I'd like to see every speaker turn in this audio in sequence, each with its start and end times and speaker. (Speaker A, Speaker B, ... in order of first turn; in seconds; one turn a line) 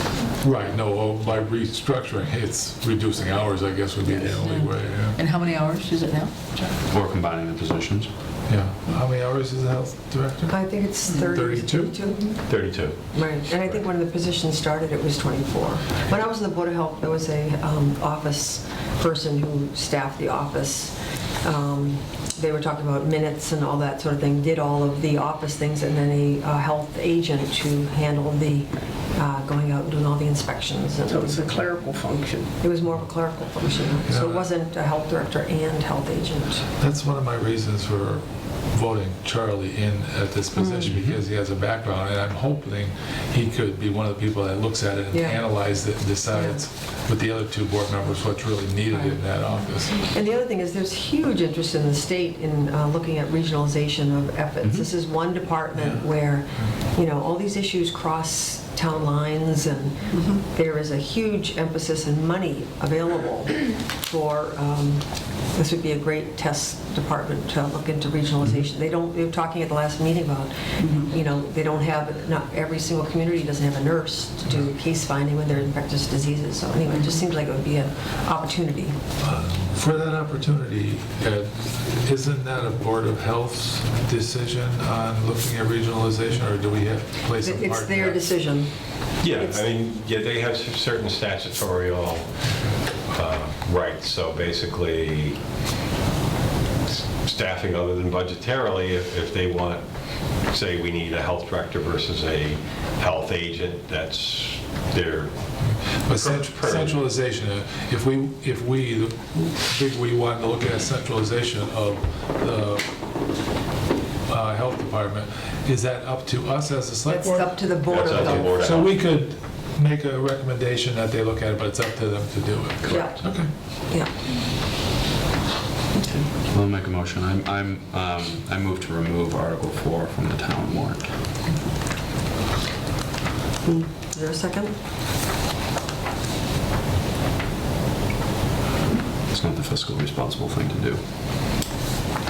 Speaker A: 0.4-5.2
Speaker B: 4.0-6.8
Speaker C: 6.8-8.1
Speaker A: 8.5-11.9
Speaker D: 10.5-31.6
Speaker B: 11.0-11.4
Speaker E: 12.5-13.1
Speaker F: 31.0-32.5
Speaker D: 32.6-36.7
Speaker A: 34.1-34.5
Speaker A: 36.8-50.1
Speaker D: 40.5-40.9
Speaker D: 45.1-45.7
Speaker D: 46.3-46.6
Speaker D: 48.9-79.0
Speaker C: 54.6-54.9
Speaker A: 55.7-56.0
Speaker F: 70.8-71.1
Speaker A: 79.2-88.3
Speaker D: 87.4-89.6
Speaker E: 89.2-92.3
Speaker E: 93.1-95.4
Speaker E: 97.1-99.8
Speaker E: 100.5-107.0
Speaker A: 106.0-112.8
Speaker A: 114.3-123.5
Speaker D: 117.0-118.8
Speaker E: 117.9-118.9
Speaker D: 122.8-124.1
Speaker F: 125.9-126.3
Speaker C: 126.5-131.1
Speaker D: 133.9-134.7
Speaker C: 139.3-141.0